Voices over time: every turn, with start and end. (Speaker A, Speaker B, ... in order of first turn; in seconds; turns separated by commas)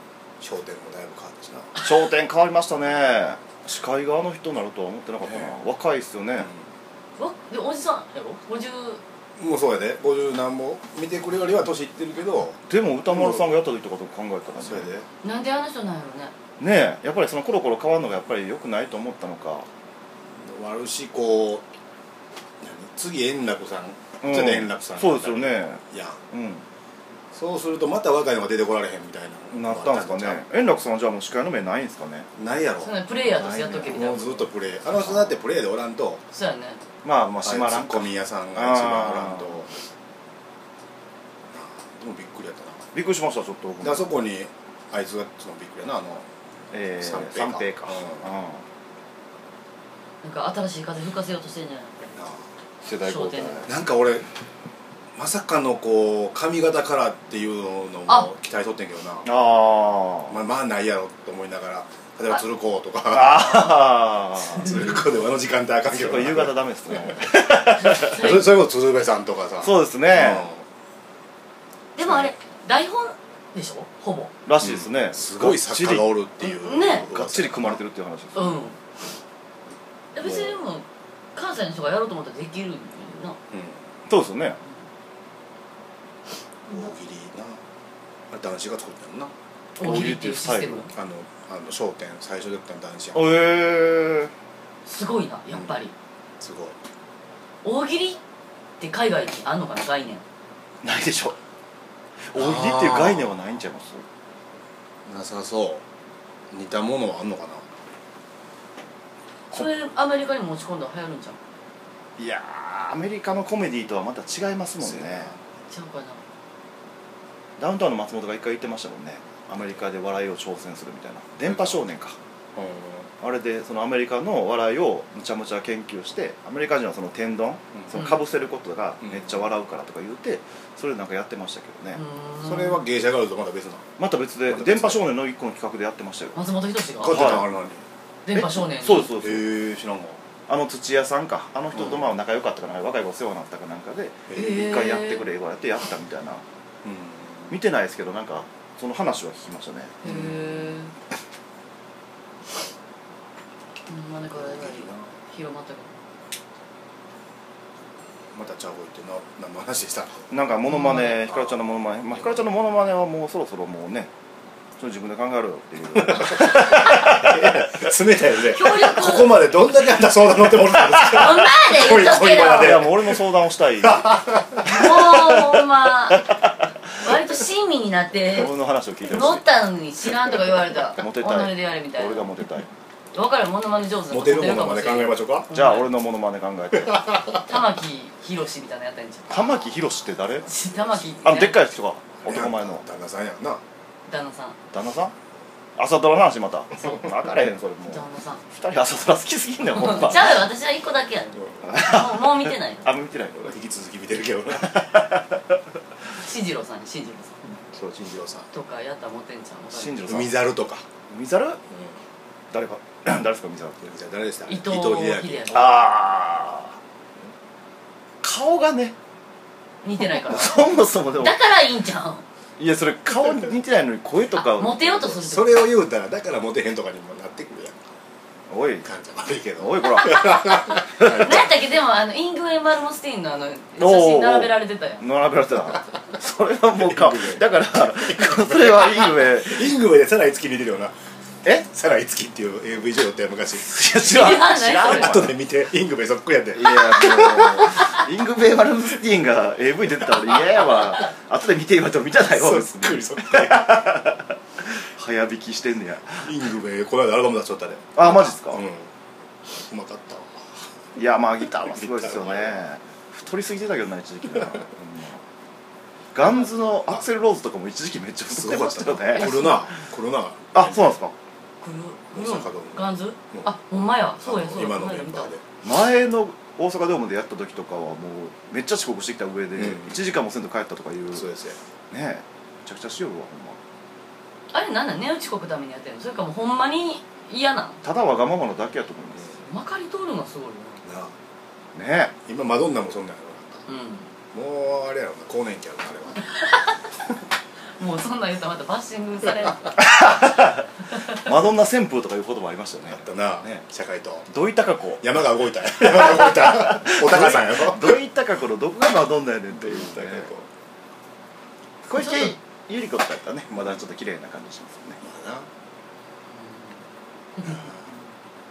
Speaker A: 0.4-1.8, Speaker B: 1.8-6.5, Speaker A: 5.2-5.5, Speaker C: 7.2-9.0, Speaker A: 9.4-13.5, Speaker B: 12.7-14.9, Speaker A: 14.6-15.1, Speaker C: 15.2-16.3, Speaker B: 16.6-19.7, Speaker A: 20.3-21.6, Speaker A: 22.6-26.2, Speaker B: 24.2-26.6, Speaker A: 27.3-30.4, Speaker B: 29.5-32.3, Speaker A: 32.4-33.0, Speaker C: 32.8-34.5, Speaker B: 33.2-34.3, Speaker A: 33.9-36.2, Speaker B: 34.9-35.4, Speaker C: 36.3-36.8, Speaker B: 37.0-39.7, Speaker A: 37.4-39.7, Speaker A: 41.5-42.9, Speaker B: 42.9-44.1, Speaker A: 43.8-46.3, Speaker B: 46.7-48.6, Speaker A: 47.0-48.3, Speaker C: 50.2-52.2, Speaker A: 52.2-52.4, Speaker B: 52.8-53.7, Speaker C: 53.0-53.6, Speaker A: 53.7-54.3, Speaker A: 55.2-59.3, Speaker B: 59.2-60.4, Speaker A: 60.3-63.9, Speaker B: 63.1-65.0, Speaker A: 64.5-67.2, Speaker B: 65.8-68.4, Speaker C: 68.0-68.5, Speaker A: 68.0-70.7, Speaker B: 69.6-70.5, Speaker C: 72.0-74.3, Speaker B: 72.0-72.3, Speaker B: 74.5-76.2, Speaker A: 74.6-77.8, Speaker C: 76.4-77.1, Speaker B: 76.9-78.6, Speaker C: 78.3-78.8, Speaker C: 80.1-83.4, Speaker A: 83.5-83.8, Speaker B: 84.1-84.6, Speaker A: 86.7-87.6, Speaker A: 88.3-89.3, Speaker C: 89.8-90.9, Speaker B: 89.8-90.9, Speaker A: 90.9-93.2, Speaker B: 93.1-94.3, Speaker C: 94.9-95.9, Speaker A: 95.5-95.8, Speaker A: 96.4-96.8, Speaker C: 97.6-98.2, Speaker C: 98.8-100.2, Speaker B: 100.8-101.4, Speaker B: 102.3-104.0, Speaker A: 102.3-103.4, Speaker A: 105.1-105.8, Speaker A: 106.5-107.6, Speaker C: 109.5-111.4, Speaker B: 112.2-115.3, Speaker A: 114.8-115.4, Speaker C: 115.7-116.2, Speaker B: 117.6-122.2, Speaker A: 121.5-121.8, Speaker A: 122.6-123.1, Speaker B: 123.2-132.0, Speaker C: 127.9-128.2, Speaker A: 129.0-129.4, Speaker C: 131.9-132.8, Speaker A: 132.4-133.9, Speaker B: 134.0-136.4, Speaker A: 134.5-135.1, Speaker C: 136.3-137.4, Speaker A: 137.0-137.8, Speaker B: 137.0-137.5, Speaker C: 138.3-139.1, Speaker B: 138.3-139.5, Speaker A: 139.2-140.2, Speaker B: 140.5-146.4, Speaker A: 141.8-142.0, Speaker A: 144.3-144.6, Speaker C: 144.3-145.2, Speaker A: 146.8-147.6, Speaker B: 147.5-150.0, Speaker C: 150.0-150.9, Speaker A: 150.0-150.7, Speaker C: 153.9-155.9, Speaker A: 154.3-155.1, Speaker A: 158.3-160.3, Speaker B: 160.3-164.1, Speaker C: 160.7-161.2, Speaker A: 161.3-161.6, Speaker B: 164.8-167.7, Speaker A: 165.9-173.2, Speaker C: 168.5-169.5, Speaker B: 170.9-171.4, Speaker C: 171.1-172.8, Speaker B: 172.5-174.2, Speaker A: 173.8-175.5, Speaker C: 174.6-176.3, Speaker B: 176.1-176.5, Speaker C: 177.0-178.5, Speaker B: 178.3-179.4, Speaker C: 179.1-182.3, Speaker B: 181.0-182.7, Speaker C: 183.1-185.9, Speaker A: 184.1-185.5, Speaker B: 185.5-187.1, Speaker A: 186.8-187.4, Speaker C: 187.3-189.7, Speaker B: 189.3-190.5, Speaker C: 190.5-191.6, Speaker B: 191.2-192.9, Speaker A: 192.2-193.6, Speaker C: 194.1-194.6, Speaker B: 194.7-195.1, Speaker B: 195.8-200.5, Speaker C: 196.8-197.1, Speaker C: 197.8-198.4, Speaker C: 199.7-202.9, Speaker B: 201.7-203.6, Speaker A: 203.4-204.9, Speaker B: 204.6-205.6, Speaker C: 206.2-207.6, Speaker A: 207.7-208.5, Speaker C: 208.5-210.0, Speaker B: 209.7-210.3, Speaker A: 210.1-210.9, Speaker B: 211.1-211.6, Speaker B: 212.5-213.9, Speaker A: 213.8-215.8, Speaker C: 214.5-215.8, Speaker B: 215.5-216.8, Speaker B: 218.2-218.9, Speaker C: 219.8-222.2, Speaker B: 220.1-221.4, Speaker B: 222.6-225.2, Speaker C: 224.4-225.7, Speaker A: 225.2-227.9, Speaker B: 228.5-228.9, Speaker A: 228.8-231.6, Speaker B: 229.6-230.4, Speaker C: 230.0-235.1, Speaker B: 231.0-231.3, Speaker B: 233.8-239.8, Speaker A: 236.7-240.9, Speaker A: 241.6-243.7, Speaker B: 243.6-245.4, Speaker C: 243.9-245.1, Speaker A: 244.8-247.9, Speaker B: 246.5-256.4, Speaker A: 252.3-253.7, Speaker A: 256.2-258.9, Speaker B: 258.0-258.6, Speaker A: 259.5-260.5, Speaker B: 261.0-265.2, Speaker A: 261.7-262.7, Speaker B: 266.1-269.7, Speaker A: 268.3-271.0, Speaker C: 269.2-269.7, Speaker B: 270.5-271.1, Speaker C: 271.6-275.4, Speaker A: 272.1-275.4, Speaker B: 275.6-281.3, Speaker A: 279.6-279.9, Speaker A: 281.1-281.6, Speaker B: 281.9-283.6, Speaker C: 284.5-287.8, Speaker B: 287.8-289.4, Speaker C: 289.4-290.8, Speaker A: 290.9-291.1, Speaker B: 291.8-292.1, Speaker A: 292.3-293.6, Speaker C: 293.7-294.1, Speaker A: 294.3-296.2, Speaker C: 296.3-296.8, Speaker C: 297.8-299.8, Speaker B: 299.8-303.6, Speaker A: 302.9-304.3, Speaker B: 304.3-305.1, Speaker A: 305.0-308.0, Speaker B: 305.8-310.3, Speaker A: 309.6-310.5, Speaker B: 311.9-315.0, Speaker C: 311.9-312.4, Speaker A: 315.0-315.5